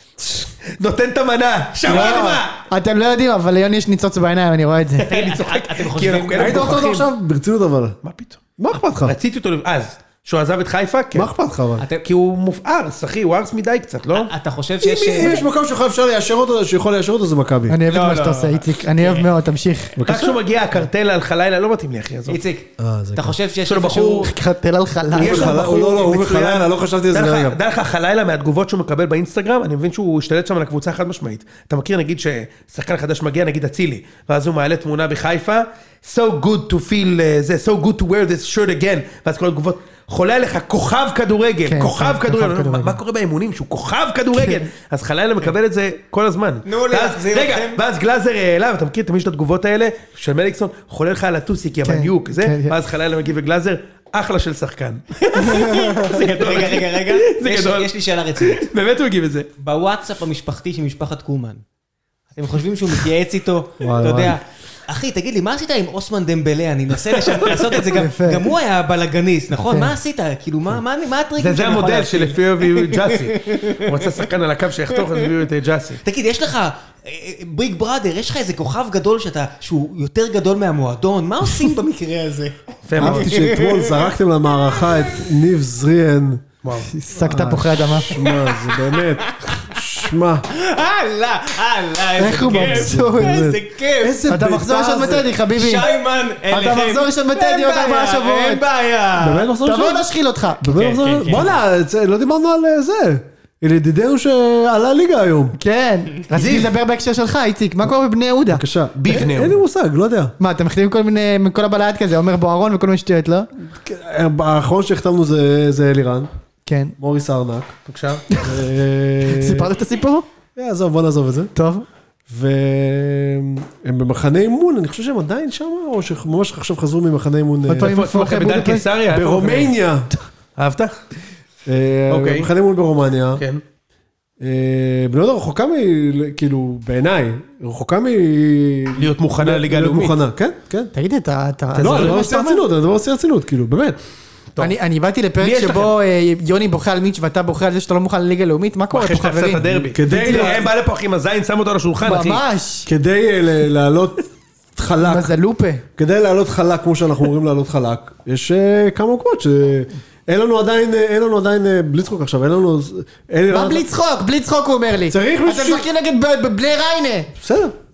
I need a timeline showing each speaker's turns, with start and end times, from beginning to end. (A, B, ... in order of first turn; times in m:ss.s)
0:00.4-0:02.6 A
0:01.9-0:02.4 B
0:01.9-0:05.1 C
0:05.0-0:06.8 D
0:05.1-0:07.1 A
0:06.3-0:08.0 B
0:08.0-0:08.4 A
0:08.6-0:09.2 B
0:09.0-0:11.3 A
0:11.1-0:11.9 B
0:11.8-0:12.1 D
0:12.0-0:14.3 A
0:14.1-0:15.4 D
0:14.8-0:17.8 B
0:17.7-0:20.0 C
0:17.9-0:19.3 D
0:20.0-0:20.4 B
0:20.0-0:22.4 A
0:22.3-0:24.3 D
0:22.8-0:23.4 B
0:23.6-0:24.3 A
0:24.2-0:25.8 C
0:25.2-0:59.5 A
0:25.2-0:27.6 B
0:41.7-0:43.0 C
0:44.3-0:44.7 C
0:46.7-0:47.8 D
0:51.8-0:52.8 C
0:55.2-0:58.7 D
0:55.4-0:56.2 C
0:59.6-1:01.6 D
1:02.4-1:14.3 D
1:03.8-1:04.4 B
1:07.9-1:08.5 C
1:09.5-1:09.9 C
1:11.4-1:16.0 A
1:15.0-1:15.3 D
1:16.0-1:25.3 D
1:22.9-1:23.3 A
1:23.0-1:26.5 B
1:26.9-1:28.1 C
1:27.2-1:30.5 B
1:28.1-1:34.2 D
1:32.2-1:33.4 C
1:32.3-1:35.3 B
1:34.3-1:35.9 C
1:35.2-1:39.5 D
1:36.5-1:38.6 C
1:39.2-1:40.1 B
1:39.6-1:40.7 C
1:40.6-1:45.6 B
1:40.7-1:41.6 D
1:45.6-1:49.2 C
1:46.4-1:46.7 A
1:48.5-1:50.3 B
1:49.0-1:49.6 A
1:50.4-1:53.5 C
1:53.6-1:56.3 B
1:56.7-1:57.0 C
1:57.0-1:57.7 B
1:57.9-1:58.2 A
1:58.3-1:58.6 C
1:58.4-1:59.7 B
1:59.2-2:00.3 C
2:00.6-2:01.5 B
2:01.6-2:01.8 C
2:02.3-2:08.0 B
2:07.7-2:08.9 C
2:07.8-2:09.7 A
2:09.1-2:10.1 B
2:10.6-2:11.0 A
2:11.7-2:13.4 B
2:12.1-2:12.5 A
2:13.4-2:13.6 A
2:14.4-2:20.9 B
2:19.0-2:20.2 A
2:20.9-2:22.6 C
2:21.7-2:22.2 A
2:21.8-2:24.0 B
2:24.6-2:30.6 C
2:25.4-2:25.9 A
2:28.9-2:32.4 A
2:29.7-2:30.7 B
2:32.0-2:32.9 C
2:32.9-2:35.3 B
2:35.0-2:35.8 C
2:36.0-2:43.9 B
2:43.5-2:47.3 C
2:45.1-2:45.9 B
2:47.4-2:47.7 B